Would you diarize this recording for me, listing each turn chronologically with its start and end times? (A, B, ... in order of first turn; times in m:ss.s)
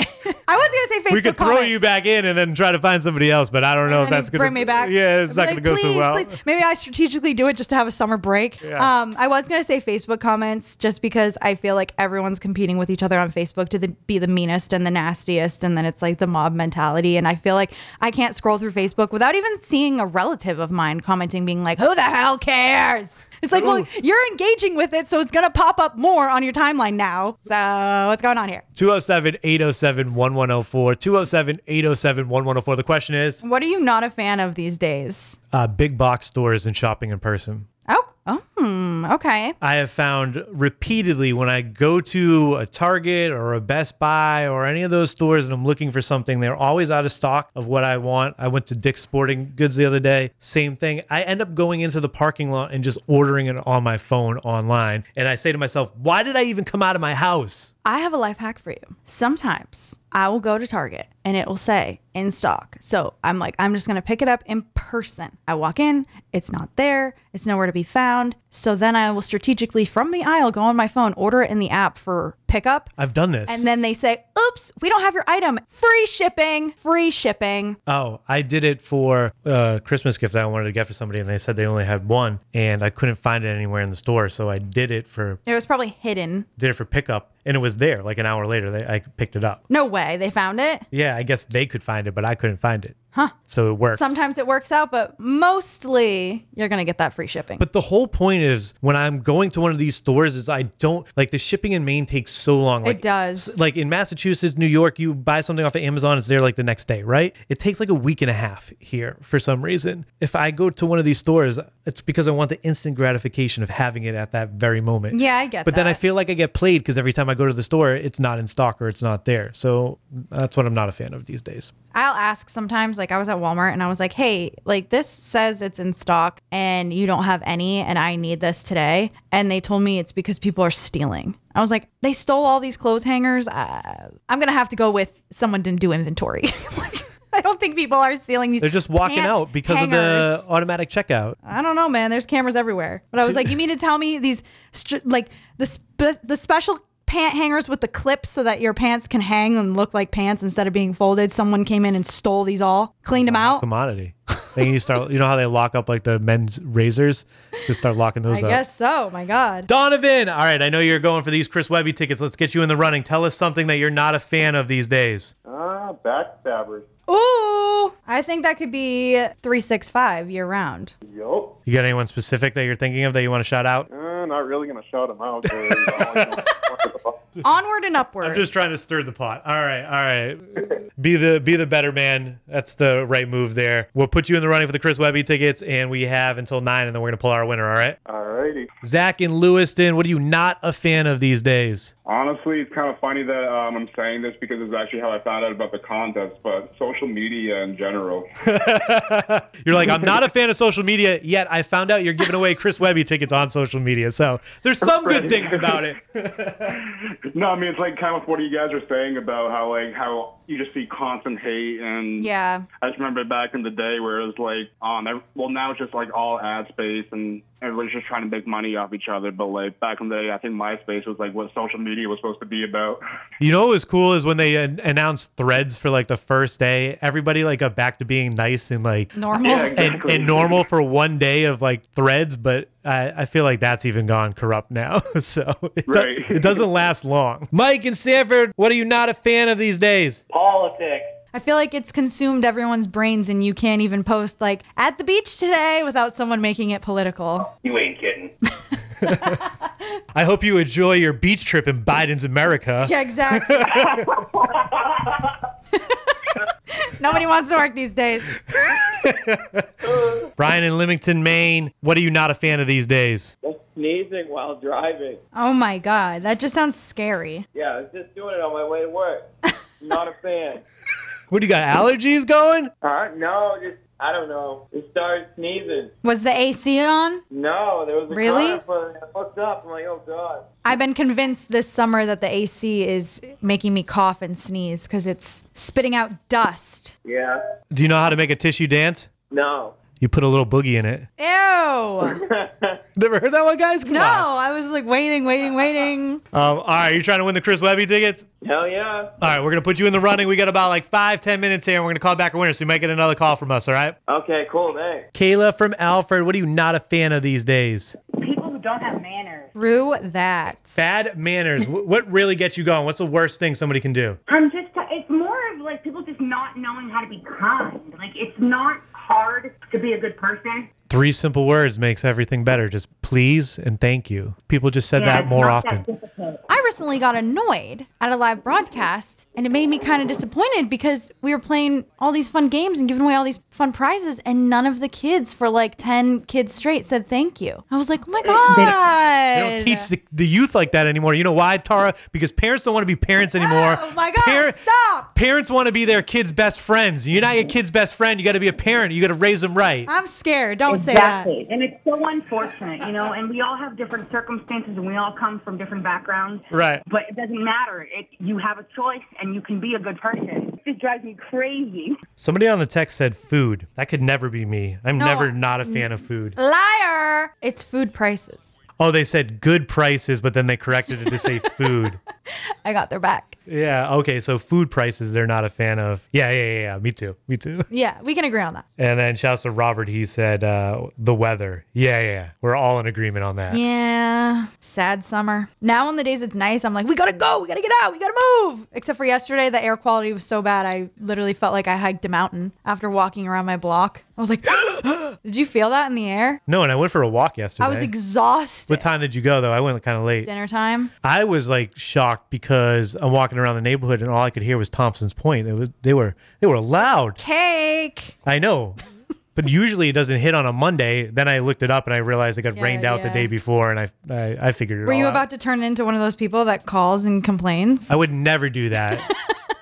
0:00.2-0:01.8 A
0:01.1-0:06.4 B
0:03.8-0:28.6 A
0:08.6-0:08.9 B
0:23.5-0:23.9 B
0:28.7-0:33.4 B
0:33.4-0:35.4 A
0:35.5-0:37.7 B
0:37.9-0:39.6 A
0:39.6-0:57.7 B
0:57.8-1:12.9 A
1:13.0-1:13.6 B
1:13.5-1:17.8 A
1:17.9-1:25.4 B
1:25.4-1:26.5 A
1:26.6-1:29.6 B
1:29.7-1:30.8 A
1:30.9-1:34.0 B
1:33.9-1:37.6 A
1:37.6-2:01.7 B
1:42.8-1:43.6 A
1:55.1-1:56.0 A
2:01.9-2:20.4 A
2:18.6-2:21.4 B
2:21.5-2:33.6 A
2:23.2-2:23.5 B
2:33.1-2:38.6 B
2:38.3-2:39.7 A
2:39.7-2:45.3 B
2:45.4-2:46.9 C
2:47.1-2:50.9 A
2:51.0-2:51.6 C
2:51.7-2:53.9 B
2:53.9-2:57.1 C
2:55.6-2:56.4 B
2:57.4-2:58.4 A
2:58.2-3:08.0 B
3:08.0-3:08.7 C
3:08.8-3:11.9 B
3:12.0-3:18.3 D
3:18.4-3:26.8 B
3:24.9-3:25.8 D
3:26.7-3:43.0 D
3:32.2-3:32.6 A
3:43.4-3:49.2 B
3:49.2-3:50.0 A
3:49.4-3:50.6 D
3:49.7-4:00.2 B
3:55.9-3:56.6 D
4:01.3-4:07.5 A
4:09.0-4:09.4 B
4:09.0-4:09.5 A
4:10.1-4:14.2 B
4:12.8-4:14.0 A
4:15.7-4:16.1 A
4:16.7-4:18.4 A
4:18.5-4:19.7 B
4:19.8-4:20.3 E
4:20.4-4:23.3 B
4:23.4-4:25.2 E
4:25.3-4:27.4 A
4:27.5-4:29.3 E
4:29.8-4:30.6 E
4:31.3-4:32.7 B
4:32.8-4:35.9 E
4:36.0-4:37.2 A
4:37.3-4:40.5 E
4:38.1-4:38.6 A
4:40.6-4:47.0 A
4:47.0-4:47.4 E
4:47.7-4:49.1 B
4:49.3-4:49.8 E
4:50.0-4:51.1 B
4:51.2-4:52.2 A
4:52.1-4:52.8 E
4:53.0-4:54.3 B
4:53.8-4:56.2 A
4:56.3-4:58.3 B
4:58.4-4:59.1 E
4:59.2-5:04.0 B
5:04.1-5:05.1 E
5:05.1-5:08.0 B
5:08.2-5:09.5 F
5:09.6-5:10.8 A
5:10.8-5:14.2 B
5:14.3-5:20.7 F
5:20.9-5:25.9 B
5:24.9-5:26.4 F
5:26.5-5:39.9 A
5:38.3-5:38.8 F
5:39.3-5:44.6 B
5:43.4-5:45.1 A
5:45.1-5:49.9 B
5:49.9-5:51.3 A
5:50.7-6:02.0 F
5:56.5-5:56.8 B
6:02.2-6:06.4 B
6:05.0-6:08.6 A
6:08.8-6:12.0 B
6:12.6-6:13.4 A
6:13.5-6:17.7 B
6:17.7-6:18.6 A
6:18.8-6:23.6 B
6:23.5-6:36.4 A
6:36.5-6:37.9 B
6:37.6-6:38.9 A
6:38.7-6:40.3 B
6:40.2-6:40.9 A
6:41.0-6:47.2 B
6:47.1-6:48.1 A
6:48.2-6:48.8 B
6:49.3-6:55.2 B
6:52.5-6:53.3 A
6:54.8-6:58.0 A
6:57.9-6:59.1 B